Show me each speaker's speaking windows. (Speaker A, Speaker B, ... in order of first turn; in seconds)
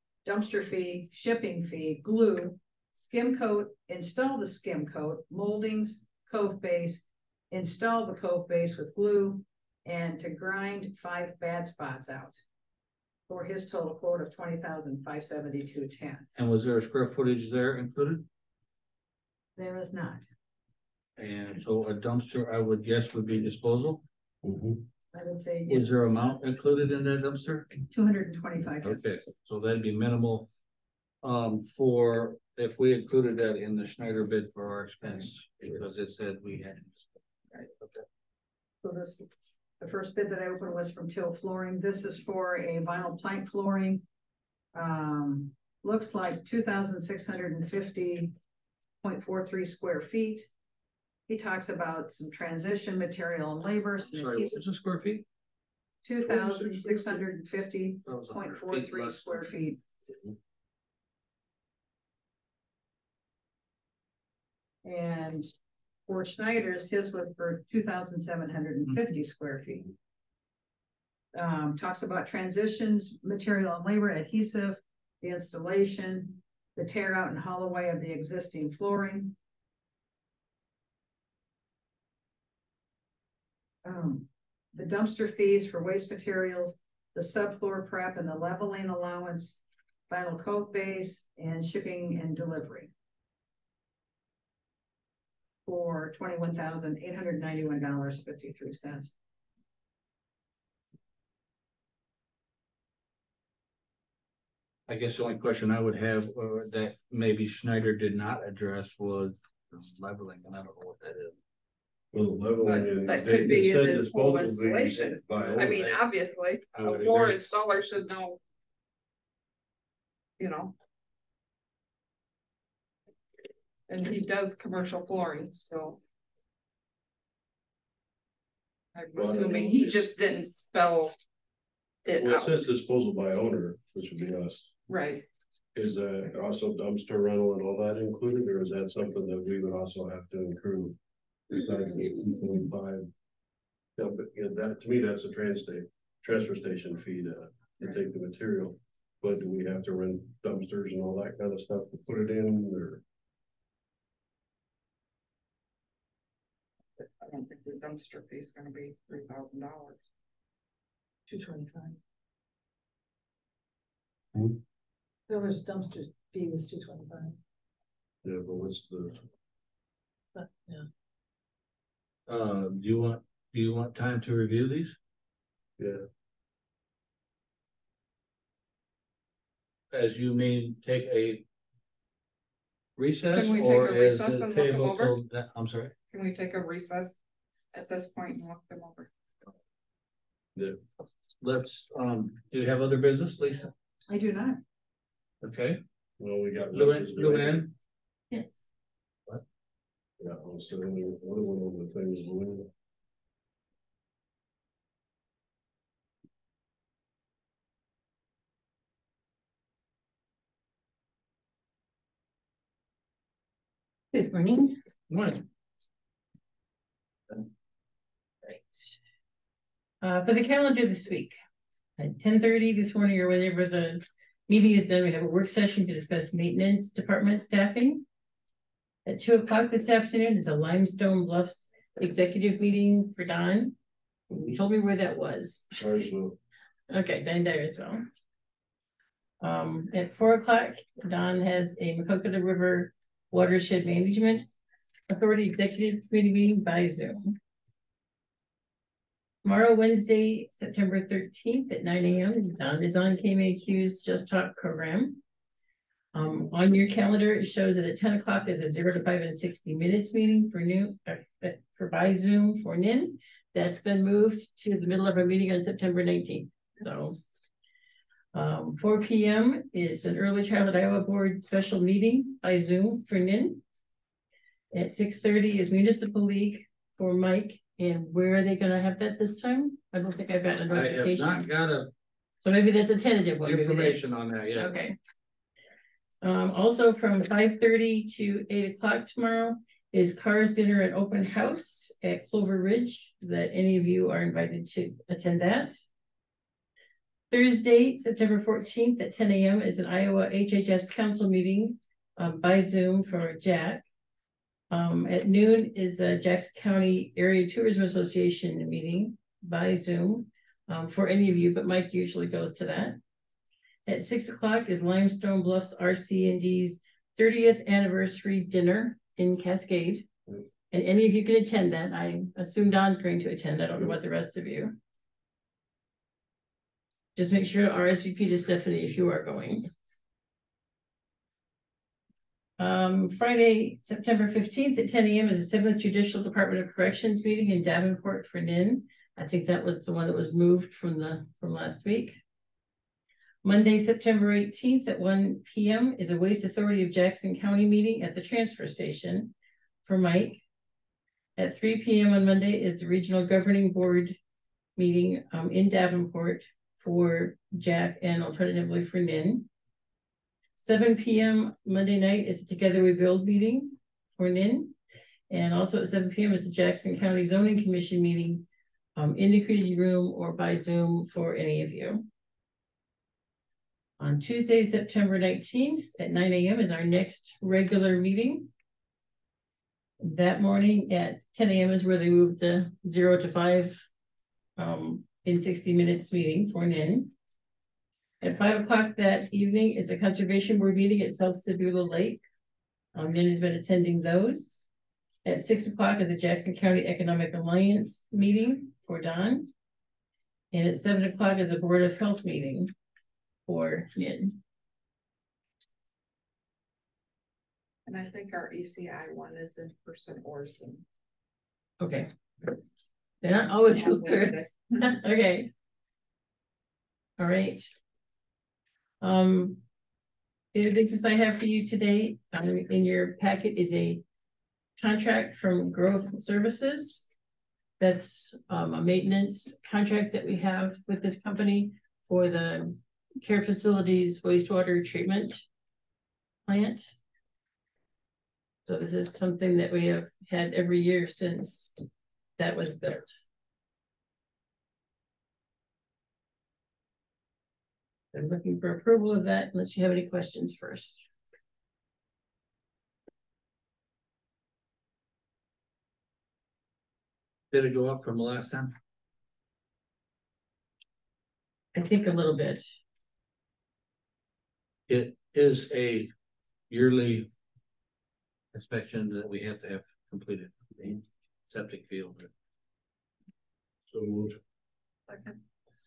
Speaker A: 0.2-12.4, 13.3-16.3, 19.6-20.2, 25.1-25.9, 27.9-29.0, 38.8-39.3, 39.8-44.0, 44.7-48.3, 49.0-50.5, 51.3-54.6, 56.0-59.8, 64.8-65.5, 66.0-69.9, 71.3-79.3, 83.8-89.6, 90.1-92.9, 95.6-99.1, 161.3-162.0, 165.3-167.4, 170.4-170.8, 194.1-194.6
Speaker B: 16.4-18.2, 21.2-24.0, 25.7-27.7, 28.8-30.5, 31.2-37.1, 54.1-55.2, 58.0-59.5, 104.9-111.3, 115.3-116.0, 116.7-117.4, 172.3-175.0, 179.9-181.4, 183.0-185.9, 191.4-193.7, 195.4-195.8, 196.7-197.7, 215.1-215.4, 280.7-281.9, 283.4-284.8, 457.5-458.7, 464.9-466.1, 466.7-467.3, 468.5-472.3
Speaker C: 24.4-24.8, 56.2-57.2, 112.1-115.9, 129.2-130.1, 132.2-134.8, 135.7-141.0, 141.5-143.1, 144.0-153.0, 168.2-169.2, 196.2-197.6, 200.2-202.7, 235.7-236.3, 473.9-474.4
Speaker D: 112.6-118.4, 120.4-120.7, 123.9-126.0, 128.9-131.1, 132.0-132.6, 134.9-135.2, 157.2-160.0, 183.3-185.2, 186.1-187.2, 187.7-189.1, 407.9-410.8, 413.8-414.4, 475.1-475.4
Speaker E: 198.3-198.6, 214.1-214.8, 218.4-218.9, 220.0-221.4, 222.0-228.0, 229.1-233.7, 234.3-235.7, 236.9-238.0, 239.4-244.4, 245.1-247.3, 249.4-255.2, 256.1-267.2, 268.3-273.6, 274.7-281.4, 282.4-284.0, 284.6-284.9, 286.2-295.8, 297.3-303.8, 304.7-313.0, 313.9-320.0, 320.7-324.7, 327.1-329.7, 332.6-342.2, 343.4-349.3, 349.9-350.4, 351.4-354.2, 354.8-359.4, 360.6-364.7, 365.3-368.4, 368.9-372.0, 374.0-378.5, 380.0-383.8, 384.6-387.1, 388.2-392.2, 392.9-394.6, 395.2-399.5, 400.5-402.7, 403.4-404.3, 411.8-412.1, 413.2-415.5, 417.2-417.7, 419.0-419.6, 420.5-424.0, 424.8-427.1, 427.8-435.4, 436.5-436.9, 438.6-441.7, 442.4-443.2, 448.1-451.0, 461.7-462.7